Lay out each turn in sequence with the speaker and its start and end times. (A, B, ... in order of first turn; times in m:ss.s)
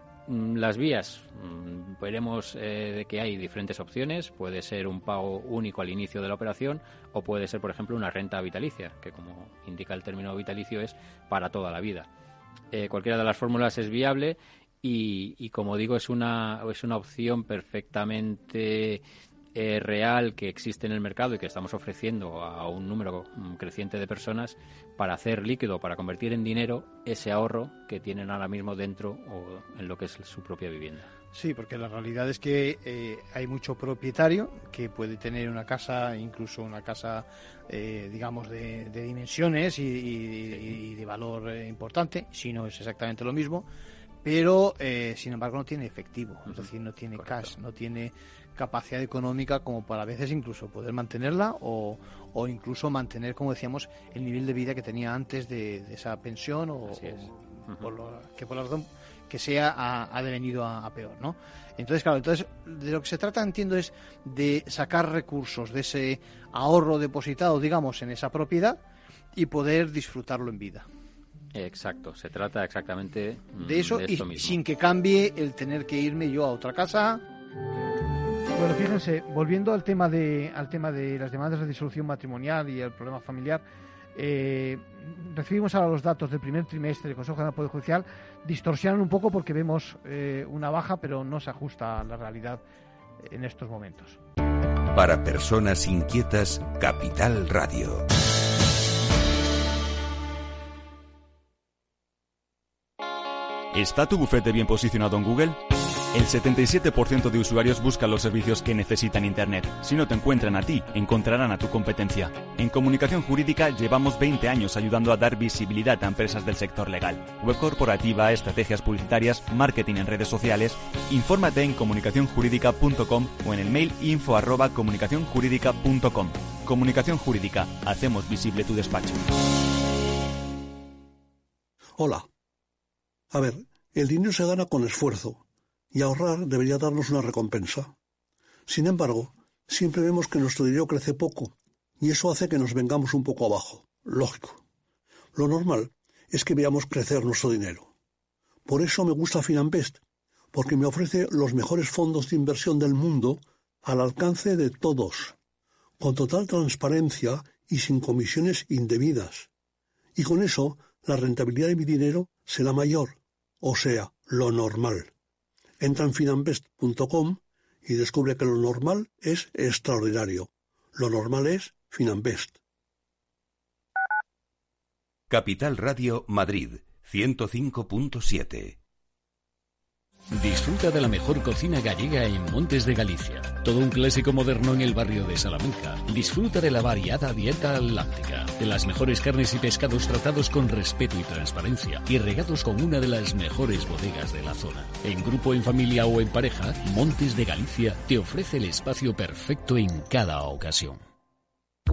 0:00.3-0:12.1 A
0:12.7-0:19.0 A
0:19.5-0:31.1 A
0:31.3-0:43.6 B
0:44.2-1:08.8 B
0:46.4-0:47.5 A
0:56.9-0:57.9 A
1:09.4-1:10.8 B
1:11.5-1:14.6 A
1:13.6-1:17.2 B
1:18.5-1:23.6 B
1:24.1-1:32.6 B
1:33.2-1:34.2 B
1:34.9-1:38.0 C
1:43.7-1:45.6 D
1:46.1-2:09.3 D
2:12.0-2:12.3 E
2:13.3-2:17.9 E
2:18.7-2:24.6 E
2:25.3-2:27.9 E
2:28.6-2:30.0 E
2:30.5-2:35.4 E
2:36.0-2:39.5 E
2:40.2-2:45.1 E
2:45.8-2:52.6 E
2:55.3-2:58.8 C
3:00.3-3:21.0 F